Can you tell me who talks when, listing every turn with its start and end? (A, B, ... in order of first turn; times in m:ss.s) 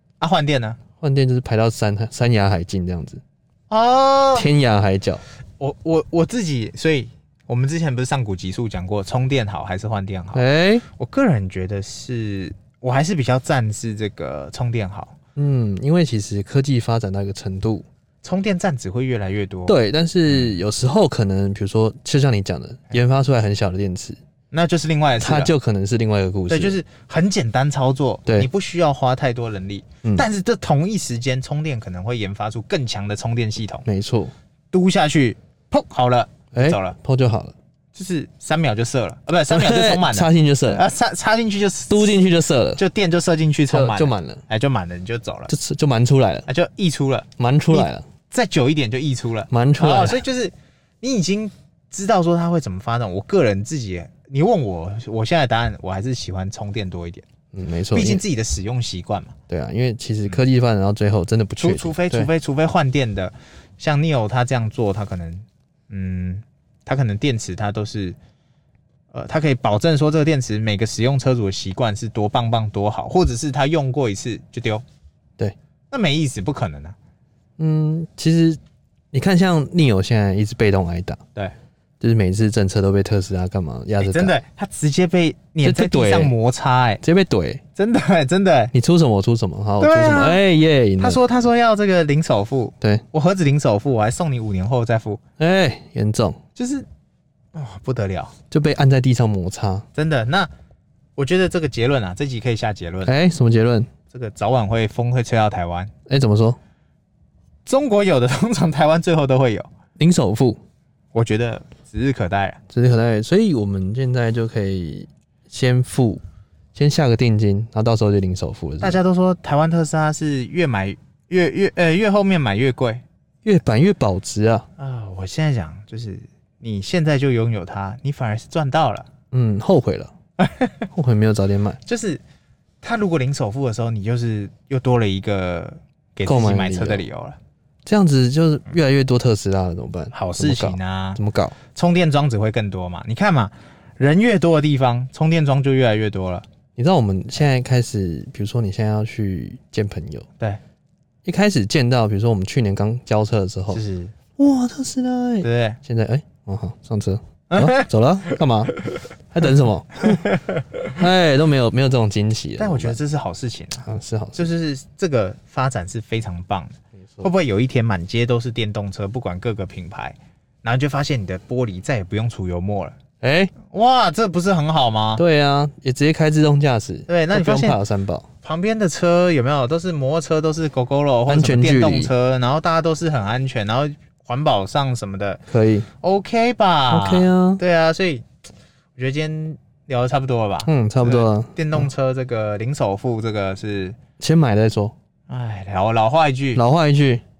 0:00.2-0:00.8 A
0:01.0-0:03.2 B
0:03.7-0:04.5 A
0:04.3-0:05.2 B
0:05.6-0:15.2 A
0:10.3-0:10.8 B
0:15.4-0:17.8 B
0:18.2-0:19.8 A
0:19.7-0:24.2 B
0:24.5-0:25.5 A
0:25.2-0:26.8 B
0:26.5-0:33.8 A
0:33.8-0:34.3 B
0:34.7-0:36.9 A
0:36.5-0:37.5 B
0:37.9-0:42.2 A
0:39.5-0:40.8 B
0:41.9-0:42.8 B
0:42.8-0:45.5 A
0:43.7-0:44.4 B
0:45.5-0:46.5 B
0:46.4-0:57.2 A
0:47.4-0:48.0 B
0:49.5-0:50.2 B
0:57.5-0:58.2 B
0:57.9-0:59.4 A
0:59.5-1:02.3 B
1:01.6-1:08.2 A
1:09.1-1:14.8 A
1:15.9-1:17.0 A
1:17.6-1:18.6 B
1:19.1-1:21.2 B
1:22.0-1:24.3 B
1:24.0-1:27.0 A
1:25.6-1:26.3 B
1:27.0-1:27.6 B
1:27.8-1:28.7 A
1:28.7-1:31.2 B
1:29.8-1:30.4 A
1:31.0-1:35.2 A
1:35.4-1:36.4 B
1:36.5-1:36.8 A
1:37.5-1:38.3 A
1:38.5-1:39.8 B
1:39.9-1:40.5 A
1:41.2-1:43.1 A
1:43.0-1:43.9 B
1:44.1-1:45.9 A
1:46.1-1:46.6 B
1:47.6-1:49.7 A
1:50.0-1:50.6 B
1:51.1-1:52.6 A
1:52.7-1:56.2 B
1:56.7-1:59.0 B
1:58.8-2:03.0 A
2:03.4-2:04.7 B
2:04.8-2:09.1 A
2:09.3-2:10.1 B
2:10.4-2:10.7 A
2:10.9-2:11.8 B
2:11.8-2:12.2 A
2:12.8-2:17.4 A
2:16.2-2:17.0 B
2:17.8-2:21.6 B
2:20.1-2:21.2 A
2:21.7-2:26.4 A
2:26.8-2:30.2 B
2:31.2-2:33.8 B
2:33.7-2:34.1 A
2:34.4-2:38.8 B
2:35.4-2:35.8 A
2:37.5-2:37.9 A
2:39.3-2:40.3 B
2:40.1-2:40.6 A
2:40.9-2:43.0 B
2:42.6-2:53.0 A
2:43.8-2:44.4 B
2:53.2-2:53.5 B
2:53.6-2:55.2 A
2:55.2-2:58.3 B
2:57.1-2:57.8 A
2:58.4-3:05.4 A
3:01.3-3:02.1 B
3:05.5-3:05.9 B
3:06.0-3:08.2 A
3:06.9-3:07.6 B
3:09.0-3:14.0 A
3:10.6-3:11.9 B
3:14.2-3:14.9 B
3:15.3-3:16.6 A
3:16.5-3:17.2 B